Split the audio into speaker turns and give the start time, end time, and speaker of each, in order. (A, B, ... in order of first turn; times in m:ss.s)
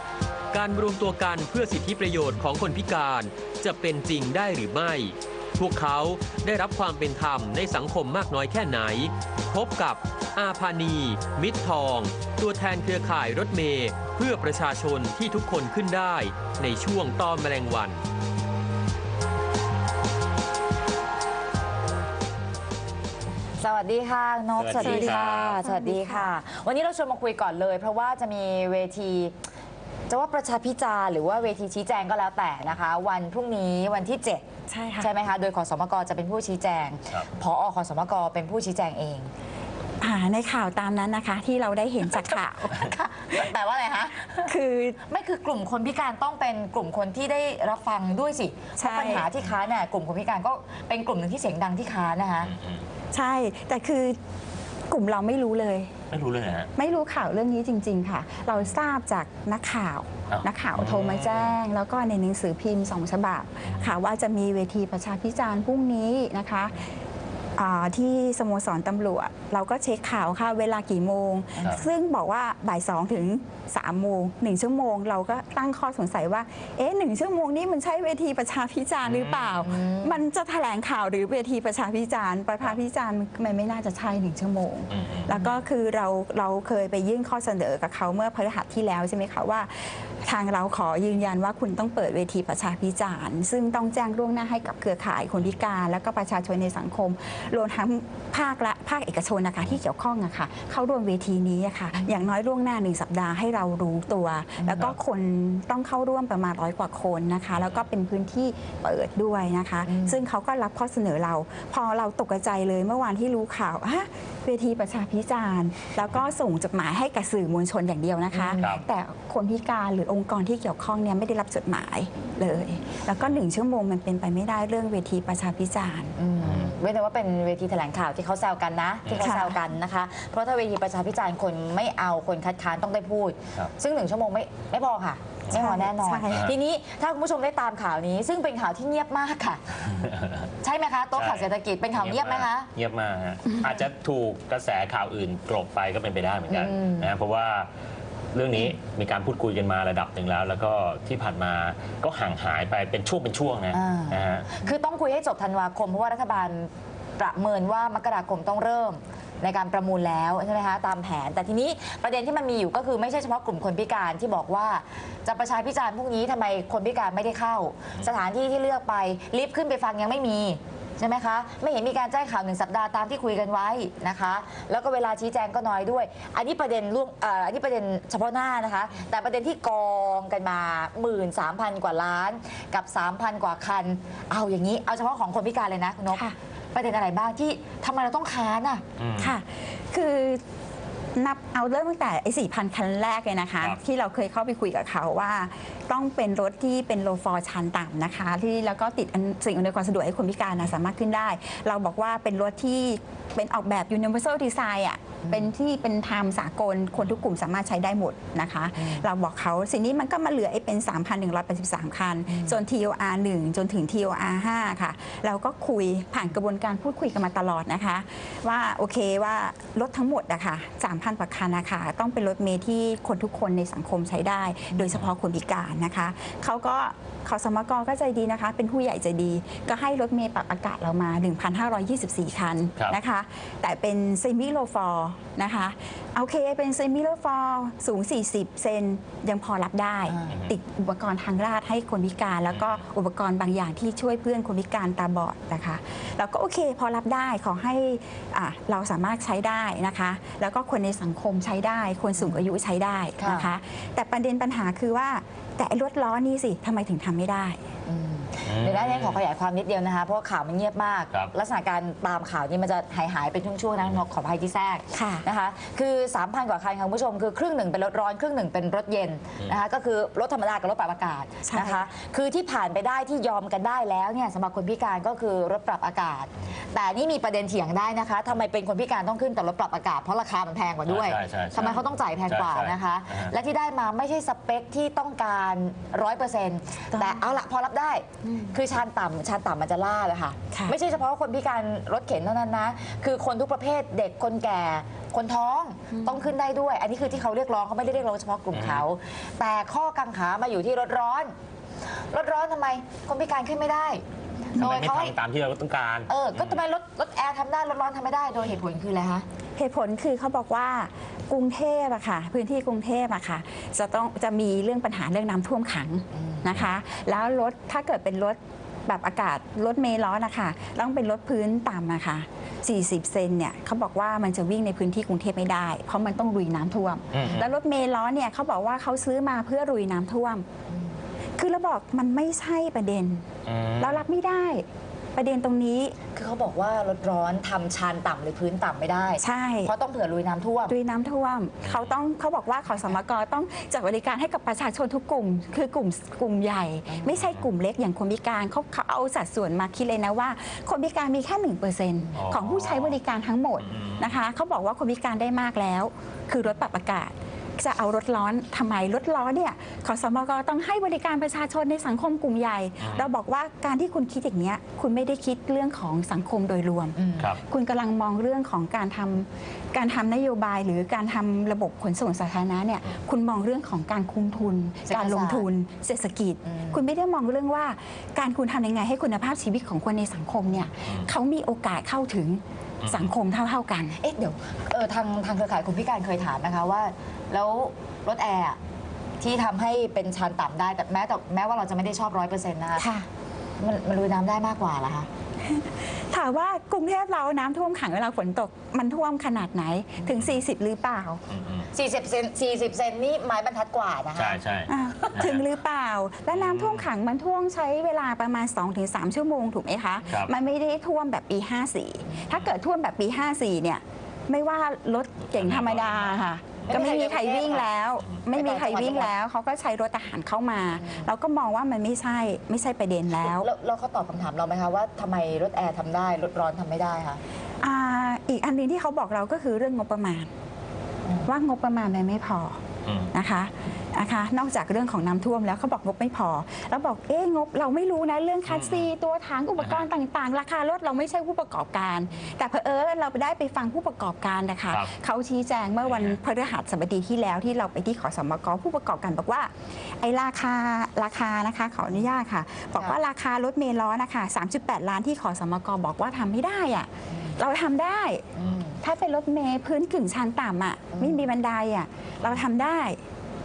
0:00.5-0:18.0 A
0:23.6-0:29.4 B
0:24.6-0:25.6 C
0:24.7-0:26.3 D
0:30.1-0:34.4 B
0:34.7-0:35.1 D
0:35.0-0:39.3 B
0:37.1-0:37.4 C
0:40.0-0:43.5 D
0:42.1-0:44.5 B
0:44.4-0:45.0 D
0:45.1-0:52.5 B
0:48.8-0:49.3 D
0:52.4-0:52.8 C
0:53.1-0:54.2 D
0:54.9-0:55.9 D
0:56.1-0:56.7 C
0:56.7-1:06.9 D
1:00.3-1:01.6 C
1:03.6-1:04.0 C
1:07.6-2:06.1 D
1:11.6-1:11.9 B
1:19.0-1:19.6 C
1:19.6-1:20.2 B
1:24.9-1:25.3 C
1:25.3-1:25.6 B
1:41.9-1:42.3 B
1:44.6-1:44.9 B
1:47.5-1:47.8 C
1:49.8-1:50.2 B
1:58.3-1:58.8 B
1:58.6-1:58.8 C
2:06.2-2:19.8 B
2:06.4-2:06.7 C
2:09.1-2:09.3 C
2:09.2-2:09.6 D
2:15.5-2:16.5 D
2:20.6-2:22.7 B
2:21.2-2:27.7 C
2:26.5-2:27.1 B
2:28.3-2:34.5 C
2:33.7-3:08.8 B
3:09.0-3:09.3 C
3:09.2-3:10.4 D
3:11.2-4:17.6 D
3:25.2-3:25.5 B
3:28.8-3:29.1 B
3:32.3-3:32.6 B
4:00.1-4:00.4 B
4:02.5-4:02.8 C
4:12.2-4:12.4 B
4:13.2-4:13.5 B
4:17.9-5:01.3 B
4:18.4-4:19.2 C
4:24.9-4:25.2 D
4:31.4-4:31.9 D
4:40.9-4:43.3 C
4:46.9-4:47.3 D
4:48.2-4:48.6 D
4:55.9-4:56.3 D
4:58.5-4:58.8 C
5:02.1-5:05.2 B
5:04.6-5:06.6 C
5:06.1-5:09.2 B
5:09.6-5:30.4 D
5:16.1-5:16.4 B
5:27.1-5:27.5 C
5:30.7-5:31.0 B
5:31.4-5:33.2 D
5:33.4-5:34.0 C
5:33.8-5:35.9 D
5:36.1-5:40.8 B
5:39.2-5:39.7 D
5:40.7-6:24.0 D
5:41.6-5:42.0 C
5:46.9-5:47.2 B
5:52.1-5:53.0 C
5:53.6-5:54.2 C
6:02.8-6:03.1 C
6:07.0-6:07.3 B
6:14.9-6:15.5 B
6:16.4-6:16.8 B
6:22.8-6:23.1 C
6:24.0-6:28.6 B
6:29.2-6:32.9 B
6:32.8-6:33.0 D
6:33.6-6:35.1 B
6:36.1-6:41.2 D
6:41.3-6:41.7 C
6:41.7-6:44.4 B
6:44.2-6:45.4 C
6:44.7-7:03.5 D
6:45.0-6:45.3 B
6:46.3-6:46.9 C
6:50.1-6:50.3 C
6:52.1-6:52.4 B
6:55.4-6:56.2 C
6:56.7-6:57.7 B
6:58.3-6:59.1 B
7:00.7-7:01.1 B
7:03.2-7:07.2 B
7:07.6-7:10.3 D
7:11.0-7:11.3 B
7:11.2-7:12.6 D
7:12.9-7:13.1 C
7:13.1-7:43.0 D
7:18.5-7:18.9 C
7:19.6-7:19.9 C
7:25.8-7:26.2 C
7:32.8-7:33.0 B
7:37.1-7:37.4 B
7:38.3-7:38.8 B
7:40.9-7:41.3 B